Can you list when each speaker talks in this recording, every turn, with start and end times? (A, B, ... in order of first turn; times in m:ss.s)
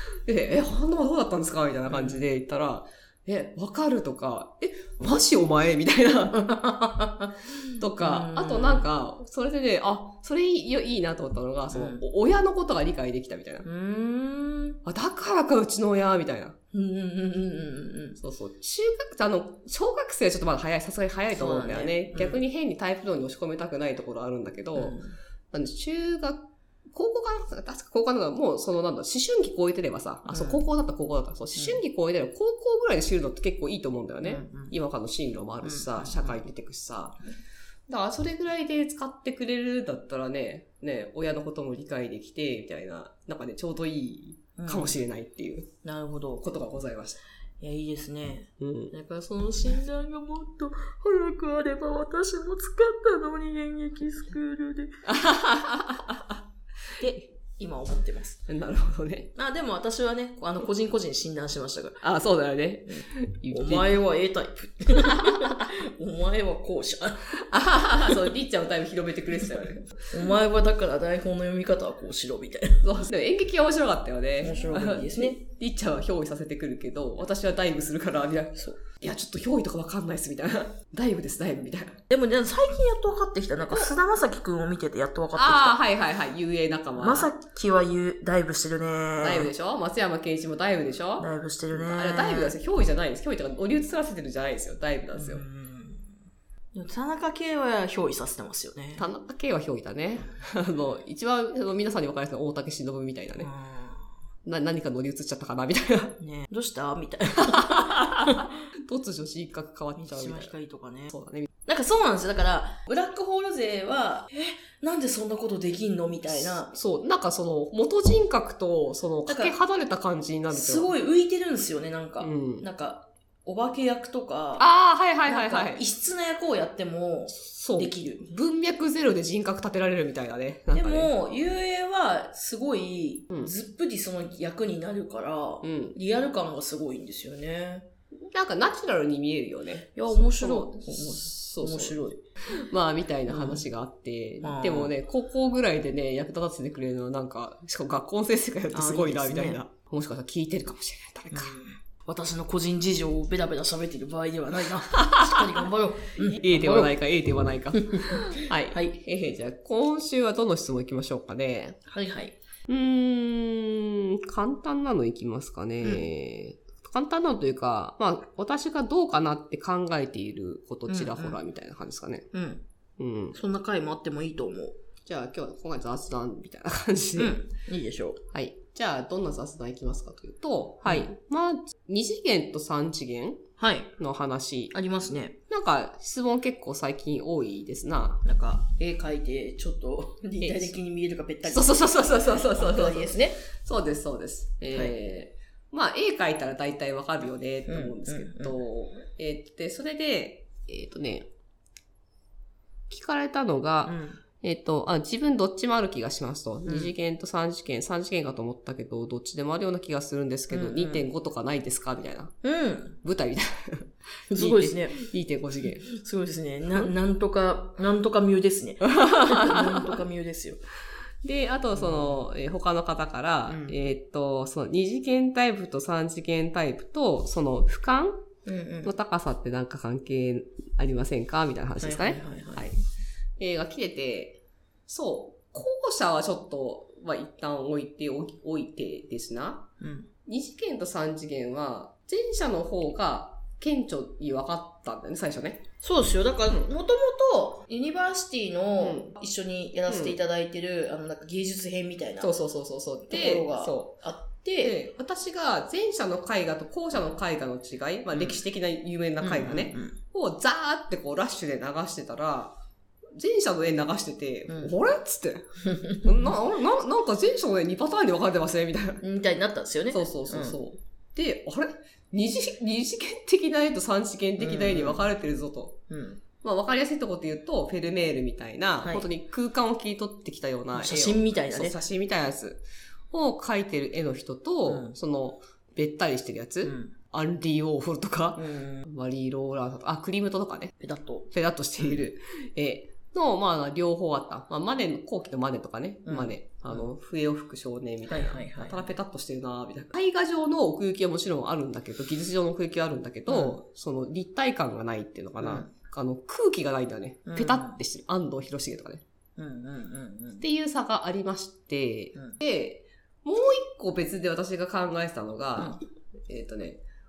0:00.2-0:06.5 A
0:01.9-0:02.2 B
0:06.3-0:08.8 B
0:07.8-0:13.6 A
0:11.7-0:12.0 B
0:13.6-0:14.8 B
0:14.8-0:16.6 A
0:16.7-0:18.2 B
0:18.2-0:25.0 A
0:21.3-0:22.4 B
0:24.8-0:25.2 B
0:25.5-0:37.2 A
0:30.3-0:30.6 B
0:31.6-0:31.8 B
0:34.2-0:34.8 B
0:35.6-0:36.4 B
0:37.9-0:45.7 A
0:44.6-0:45.0 B
0:45.8-0:46.4 B
0:46.4-0:47.2 A
0:47.6-0:55.0 B
0:48.6-0:48.9 A
0:55.0-0:56.4 A
0:57.0-0:58.4 B
0:58.5-0:59.3 A
0:59.3-1:02.0 B
1:02.0-1:04.0 A
1:02.9-1:07.3 B
1:05.0-1:05.6 A
1:07.4-1:10.3 A
1:10.1-1:12.8 B
1:12.8-1:22.0 A
1:14.4-1:15.4 B
1:22.1-1:25.8 B
1:25.3-1:27.3 A
1:27.0-1:29.5 B
1:29.2-1:35.4 A
1:31.2-1:32.5 B
1:35.2-1:36.1 B
1:36.7-1:39.0 B
1:39.0-1:43.5 A
1:43.4-1:44.1 B
1:44.4-1:46.2 A
1:46.2-1:48.5 B
1:47.4-1:50.5 A
1:50.0-1:51.1 B
1:51.1-1:51.5 A
1:51.6-1:56.7 B
1:56.5-2:00.9 A
1:59.2-1:59.6 B
2:00.5-2:04.6 B
2:02.2-2:02.6 A
2:04.6-2:05.8 A
2:05.2-2:08.3 B
2:07.4-2:11.1 A
2:10.7-2:17.9 B
2:15.6-2:16.0 A
2:18.3-2:31.5 A
2:19.9-2:22.2 B
2:23.3-2:23.6 B
2:24.4-2:24.9 B
2:28.7-2:29.6 B
2:31.3-2:36.9 B
2:35.0-2:35.6 A
2:36.2-2:41.8 A
2:37.7-2:38.2 B
2:38.7-2:38.9 B
2:41.9-2:42.3 B
2:42.7-2:52.3 A
2:45.8-2:46.1 B
2:50.9-2:51.4 B
2:52.3-2:52.6 B
2:53.0-2:53.4 A
2:53.3-2:54.8 B
2:55.0-2:57.4 A
2:57.2-2:58.2 B
2:58.3-3:03.4 A
3:03.6-3:03.9 B
3:04.0-3:04.7 A
3:04.7-3:05.4 B
3:05.5-3:08.2 A
3:08.2-3:13.4 B
3:10.4-3:10.7 A
3:11.4-3:21.3 A
3:14.7-3:14.9 B
3:17.7-3:18.6 B
3:22.9-3:32.3 A
3:23.8-3:24.2 B
3:26.6-3:26.9 B
3:30.5-3:31.0 B
3:32.4-3:33.0 B
3:33.0-3:35.9 A
3:34.3-3:34.9 B
3:35.8-3:40.6 B
3:38.9-3:40.0 A
3:41.2-3:48.2 A
3:41.8-3:42.2 B
3:43.5-3:43.8 B
3:48.4-3:48.9 B
3:48.8-3:52.8 A
3:51.8-3:52.7 B
3:53.4-3:59.7 A
3:59.8-4:00.1 B
4:00.2-4:05.6 A
4:05.8-4:12.3 B
4:08.8-4:09.1 A
4:09.9-4:10.2 A
4:12.2-4:14.0 A
4:13.1-4:14.8 B
4:14.6-4:22.5 A
4:18.1-4:18.4 B
4:19.2-4:20.0 B
4:23.2-4:25.4 A
4:24.5-4:24.7 B
4:25.6-4:26.1 B
4:26.0-4:29.0 A
4:29.0-4:30.6 B
4:29.9-4:35.8 A
4:34.4-4:35.0 B
4:35.9-4:36.2 B
4:36.4-4:50.7 A
4:38.8-4:39.1 B
4:40.8-4:41.8 B
4:44.7-4:45.0 B
4:46.6-4:46.9 B
4:48.4-4:48.9 B
4:50.8-4:52.0 B
4:51.3-5:09.0 A
4:56.0-4:56.9 B
4:58.1-4:59.0 B
5:03.3-5:03.6 B
5:05.4-5:05.7 B
5:07.3-5:07.8 B
5:09.4-5:10.4 B
5:10.4-5:16.8 A